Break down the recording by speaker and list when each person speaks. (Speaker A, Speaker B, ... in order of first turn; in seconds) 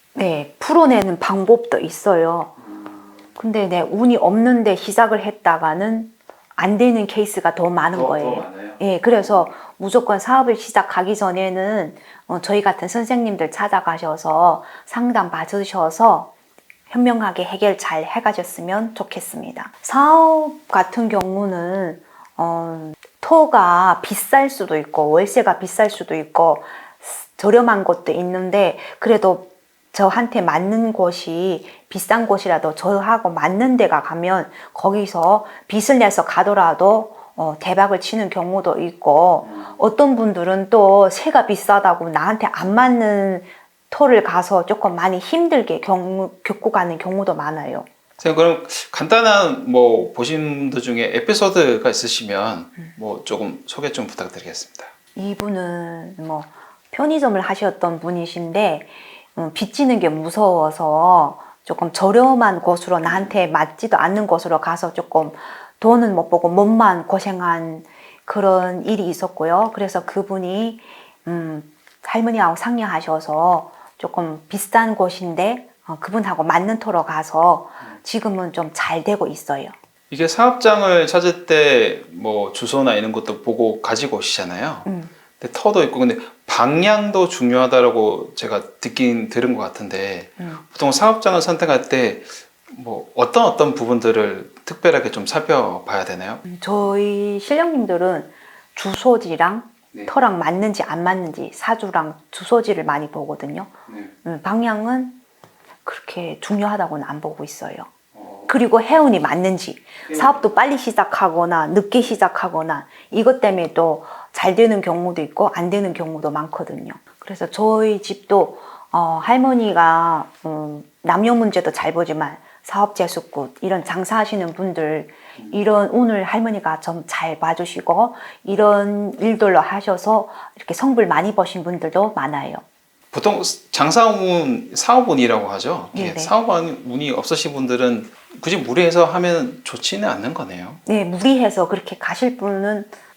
Speaker A: 0.1-2.5, 3.4-16.3, 16.9-47.9, 55.2-79.7, 84.8-85.1, 96.5-103.7, 104.2-105.2, 105.8-107.9, 108.5-132.6, 135.9-136.3, 140.9-143.0
Speaker B: 7.9-8.8, 48.2-54.9, 80.1-84.9, 85.4-96.4, 108.2-108.5, 133.1-140.8